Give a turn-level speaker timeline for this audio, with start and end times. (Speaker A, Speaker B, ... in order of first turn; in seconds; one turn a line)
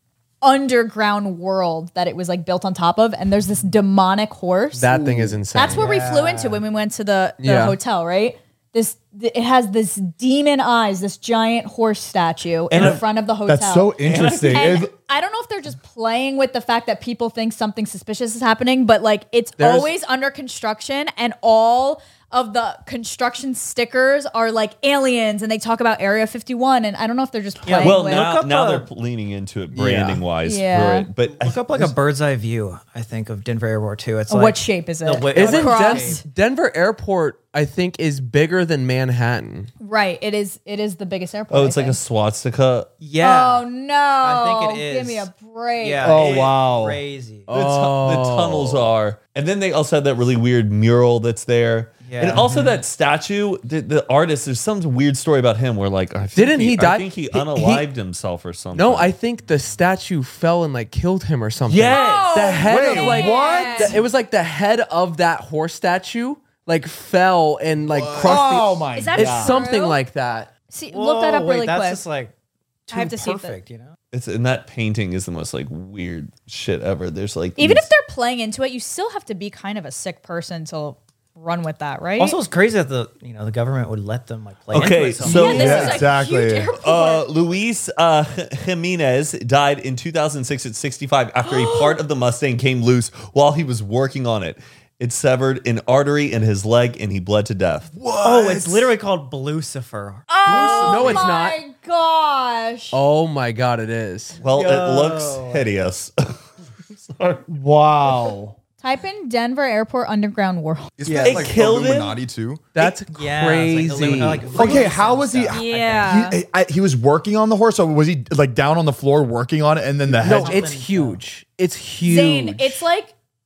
Speaker A: 0.4-4.9
Speaker B: 4.8-5.8
Speaker C: 4.8-5.4
Speaker A: 5.5-28.2
Speaker D: 5.7-6.6
Speaker B: 7.4-7.8
Speaker E: 12.7-13.0
Speaker D: 12.7-13.0
Speaker C: 13.4-14.9
Speaker E: 14.0-14.8
Speaker B: 19.6-19.9
Speaker D: 27.6-28.9
Speaker E: 27.7-31.9
Speaker B: 29.7-30.2
Speaker A: 30.4-31.1
Speaker D: 31.3-36.2
Speaker A: 34.3-36.2
Speaker B: 35.3-39.7
Speaker A: 39.8-42.0
Speaker E: 41.5-42.9
Speaker D: 43.0-43.7
Speaker A: 43.2-46.2
Speaker D: 44.2-47.5
Speaker C: 46.0-47.0
Speaker B: 47.5-48.9
Speaker E: 47.5-59.1
Speaker D: 52.0-52.8
Speaker B: 56.3-57.9
Speaker B: 58.7-70.5
Speaker E: 61.7-62.6
Speaker A: 61.9-64.0
Speaker C: 62.6-64.0
Speaker F: 67.9-68.4
Speaker C: 68.2-69.6
Speaker A: 68.9-70.0
Speaker A: 70.7-72.0
Speaker D: 70.9-72.3
Speaker D: 72.9-74.0
Speaker A: 72.9-73.5
Speaker E: 74.1-77.9
Speaker A: 77.6-82.3
Speaker D: 82.2-86.0
Speaker E: 84.7-86.0
Speaker A: 85.2-87.4
Speaker C: 85.3-86.7
Speaker E: 86.7-97.9
Speaker A: 91.4-92.0
Speaker F: 97.9-98.9
Speaker D: 98.2-100.4
Speaker A: 100.3-103.0
Speaker F: 100.4-101.3
Speaker B: 100.8-101.6
Speaker B: 102.9-104.4
Speaker E: 104.4-106.4
Speaker D: 104.4-105.7
Speaker C: 107.5-108.6
Speaker A: 108.8-110.9
Speaker F: 111.0-112.7
Speaker D: 111.0-111.5
Speaker E: 111.1-112.2
Speaker B: 112.7-114.8
Speaker D: 112.8-116.3
Speaker C: 114.5-120.6
Speaker A: 115.5-116.4
Speaker D: 120.1-121.2
Speaker B: 120.2-122.8
Speaker A: 122.0-123.1